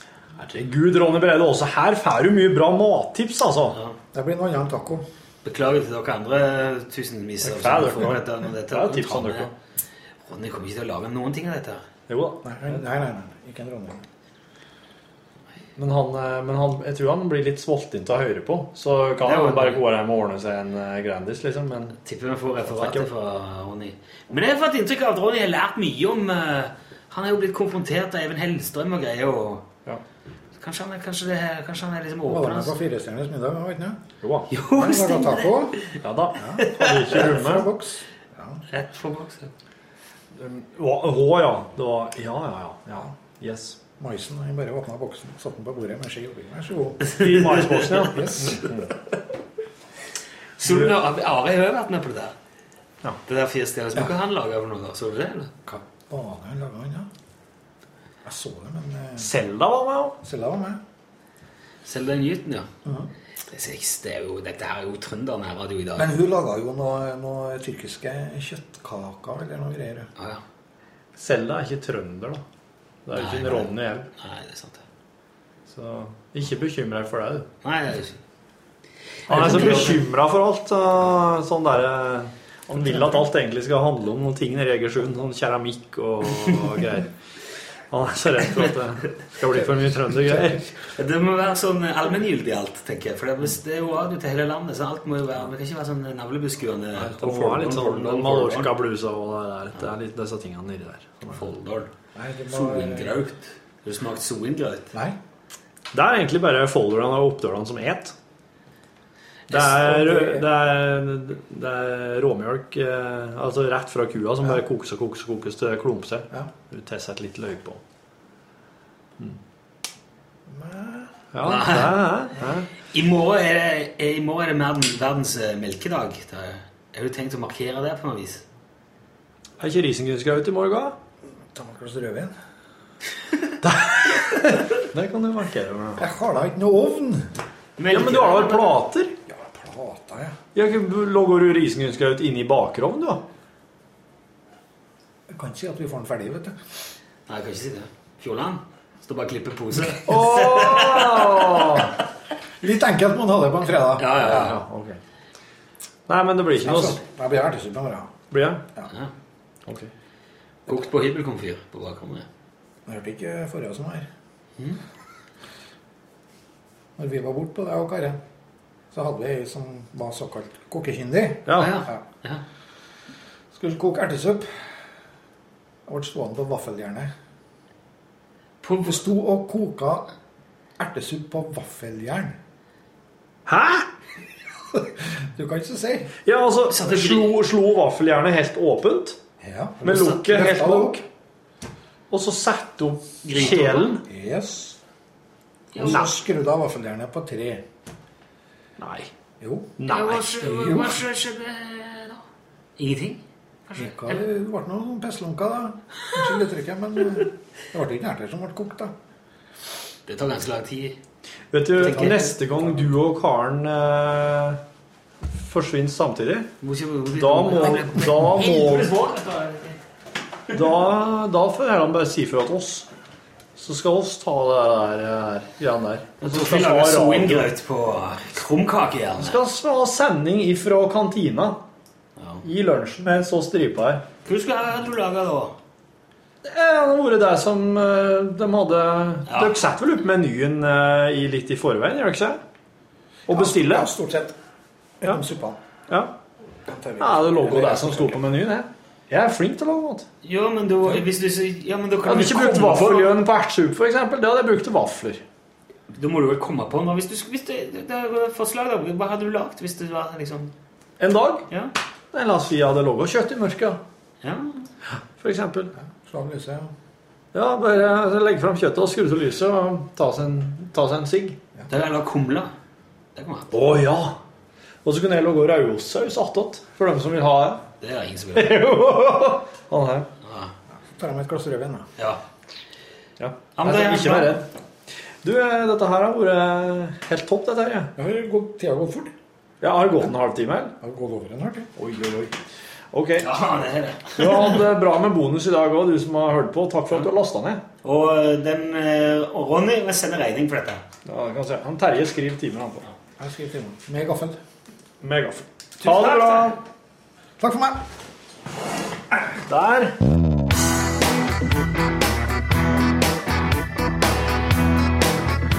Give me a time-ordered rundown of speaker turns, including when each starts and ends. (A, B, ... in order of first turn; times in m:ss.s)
0:00.4-0:03.8 A
0:04.1-0:05.0 B
0:05.4-0:09.5 C
0:07.4-0:09.5 A
0:10.3-0:11.8 C
0:12.1-0:12.8 A
0:12.4-0:14.0 B
0:15.8-0:22.0 A
0:19.2-0:19.8 C
0:22.0-0:29.7 C
0:22.7-0:23.1 A
0:30.6-0:32.8 C
0:32.3-0:34.0 B
0:34.2-0:34.5 A
0:34.5-0:36.0 C
0:34.7-0:38.6 B
0:36.0-0:37.7 A
0:36.6-0:37.2 C
0:38.7-0:39.5 C
0:40.4-0:43.8 A
0:44.0-0:48.8 B
0:47.1-0:48.1 C
0:47.2-0:48.9 A
0:50.6-0:52.4 C
0:50.7-0:50.9 A
0:53.3-0:55.5 C
0:55.7-0:57.1 B
0:58.2-0:59.3 B
0:59.2-1:00.2 A
1:00.2-1:00.8 B
1:01.8-1:02.7 C
1:03.5-1:06.2 C
1:06.0-1:10.1 B
1:11.2-1:12.4 A
1:13.1-1:14.1 A
1:13.1-1:14.8 C
1:15.7-1:17.5 A
1:17.6-1:18.2 C
1:19.3-1:20.0 C
1:19.3-1:27.2 A
1:27.9-1:30.6 A
1:30.8-1:38.7 C
1:37.0-1:41.6 A
1:41.3-1:41.9 C
1:42.2-1:43.2 B
1:42.5-1:44.9 C
1:45.9-1:48.2 A
1:49.5-1:50.4 B
1:49.5-1:57.8 A
2:00.5-2:01.2 B
2:01.3-2:02.7 A
2:01.4-2:02.1 C
2:02.8-2:08.4 C
2:09.6-2:11.0 A
2:11.5-2:12.3 B
2:13.6-2:16.1 A
2:16.0-2:17.3 B
2:17.8-2:18.8 C
2:17.9-2:19.2 A
2:19.3-2:20.4 B
2:20.6-2:23.2 A
2:25.3-2:26.6 B
2:27.3-2:31.8 C
2:30.0-2:32.0 A
2:32.6-2:34.6 B
2:34.0-2:34.6 C
2:34.1-2:35.0 A
2:36.1-2:37.0 A
2:36.6-2:38.2 B
2:38.3-2:38.7 A
2:39.7-2:39.9 A
2:40.7-2:42.3 C
2:42.9-2:44.1 B
2:47.0-2:48.2 B
2:48.9-2:52.0 B
2:51.5-2:51.8 A
2:51.6-2:52.4 C
2:53.5-2:54.6 B
2:55.9-2:57.1 B
2:58.6-2:59.0 C
2:58.8-3:00.1 B
3:00.8-3:02.4 B
3:03.5-3:03.9 A
3:04.7-3:06.2 B
3:06.2-3:09.2 A
3:06.7-3:07.3 C
3:09.4-3:11.0 B
3:09.8-3:11.0 A
3:12.1-3:14.0 A
3:13.2-3:14.0 C
3:14.1-3:14.8 B
3:15.7-3:16.1 C
3:15.8-3:17.6 B
3:15.8-3:16.1 A
3:18.8-3:19.1 A
3:19.4-3:19.8 B
3:19.8-3:20.9 A
3:19.9-3:22.2 C
3:20.4-3:21.0 B
3:22.8-3:24.2 C
3:23.8-3:28.9 B
3:30.1-3:31.0 C
3:31.5-3:34.6 A
3:31.8-3:32.2 C
3:31.9-3:32.6 B
3:35.2-3:36.5 A
3:36.6-3:39.8 C
3:37.1-3:39.0 A
3:40.5-3:42.9 A
3:43.6-3:47.5 A
3:46.2-3:49.4 C
3:49.2-3:51.6 A
3:52.2-3:52.4 C
3:52.4-3:54.0 A
3:54.2-3:55.6 C
3:56.4-4:02.4 A
3:59.3-3:59.6 C
4:03.3-4:03.9 A
4:03.3-4:04.3 B
4:05.0-4:05.6 B
4:05.9-4:06.2 A
4:06.7-4:08.2 B
4:07.0-4:10.1 A
4:10.2-4:13.2 C
4:12.1-4:15.2 A
4:15.9-4:20.5 C
4:21.0-4:21.5 A
4:22.1-4:23.8 A
4:24.2-4:24.7 C
4:25.2-4:25.7 A
4:25.8-4:26.7 B
4:27.3-4:31.4 A
4:31.7-4:32.5 C
4:33.2-4:33.7 C
4:33.5-4:34.2 A
4:34.8-4:37.6 A
4:37.8-4:38.6 C
4:38.4-4:40.1 A
4:40.2-4:40.5 C
4:40.9-4:41.9 B
4:43.2-4:44.5 A
4:43.6-4:44.4 C
4:45.2-4:47.9 A
4:48.0-4:49.1 B
4:49.6-4:50.8 A
4:50.8-4:51.7 B
4:51.8-4:52.4 A
4:52.9-4:53.3 A
4:53.2-4:54.6 C
4:54.2-4:57.6 A
4:57.8-5:00.8 C
5:01.0-5:02.8 A
5:03.2-5:04.4 B
5:05.0-5:06.6 A
5:05.8-5:06.6 C
5:07.4-5:07.8 B
5:09.3-5:10.0 A